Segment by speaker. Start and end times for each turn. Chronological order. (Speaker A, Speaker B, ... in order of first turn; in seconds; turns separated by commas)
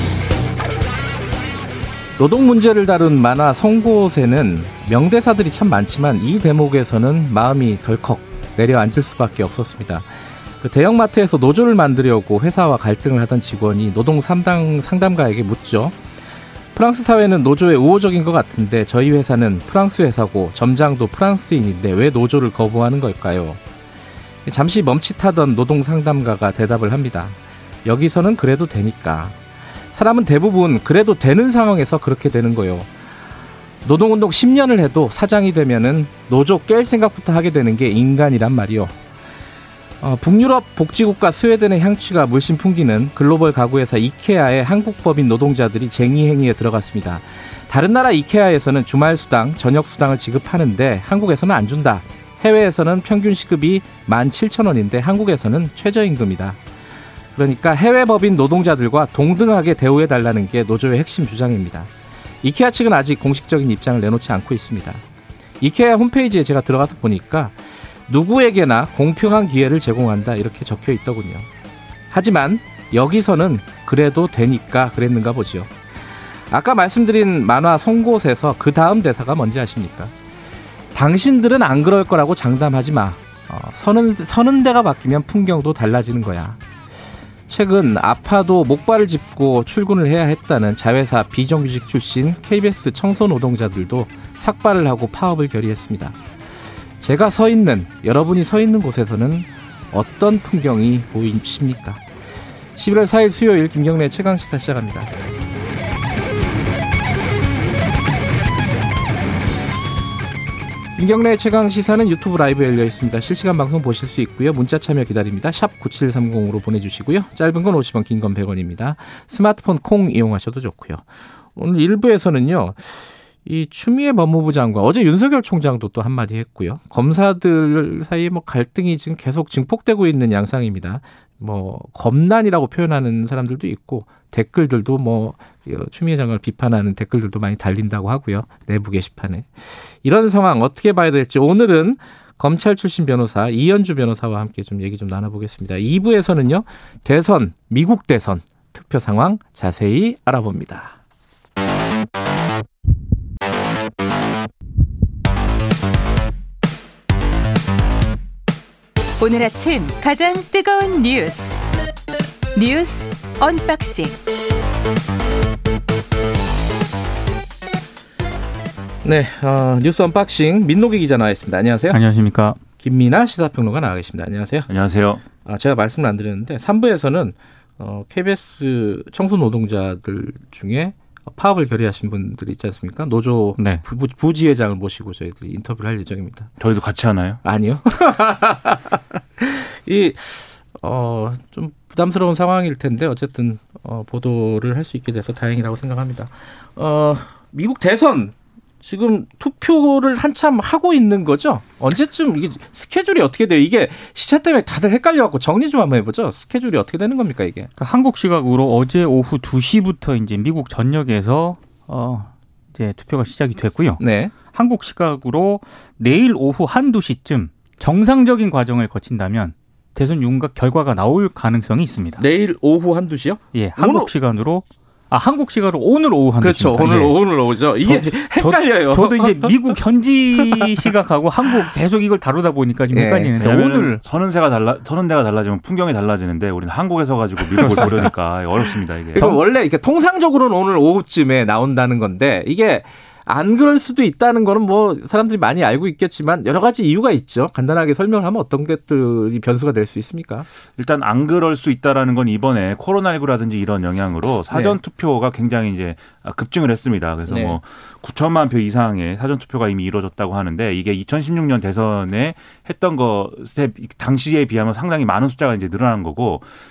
Speaker A: 2.2-10.1, Speaker A: 10.6-16.0, Speaker A: 16.7-23.6, Speaker A: 24.5-29.4, Speaker A: 29.9-32.9, Speaker A: 33.8-38.9, Speaker A: 40.0-56.6, Speaker A: 57.3-61.9, Speaker A: 62.4-65.0, Speaker A: 65.6-71.5, Speaker A: 72.1-75.7, Speaker A: 76.5-80.1, Speaker A: 80.9-86.6, Speaker A: 87.5-96.2, Speaker A: 97.0-102.0, Speaker A: 102.8-105.1, Speaker A: 111.0-151.0, Speaker B: 159.2-161.6, Speaker B: 162.6-164.1, Speaker A: 169.0-172.0, Speaker C: 171.9-172.6, Speaker A: 172.8-174.7, Speaker D: 174.7-175.2, Speaker A: 175.4-186.5, Speaker C: 183.6-183.8, Speaker D: 186.6-187.4, Speaker A: 187.4-207.7, Speaker C: 207.8-222.2, Speaker A: 214.0-214.3, Speaker A: 222.2-224.1, Speaker C: 223.5-227.2, Speaker A: 226.4-229.7, Speaker C: 227.8-234.0, Speaker A: 230.4-230.9, Speaker A: 232.9-233.3, Speaker D: 233.4-239.4, Speaker A: 237.6-238.1, Speaker A: 239.1-250.5, Speaker D: 250.8-266.5, Speaker A: 254.5-254.8, Speaker A: 257.3-257.6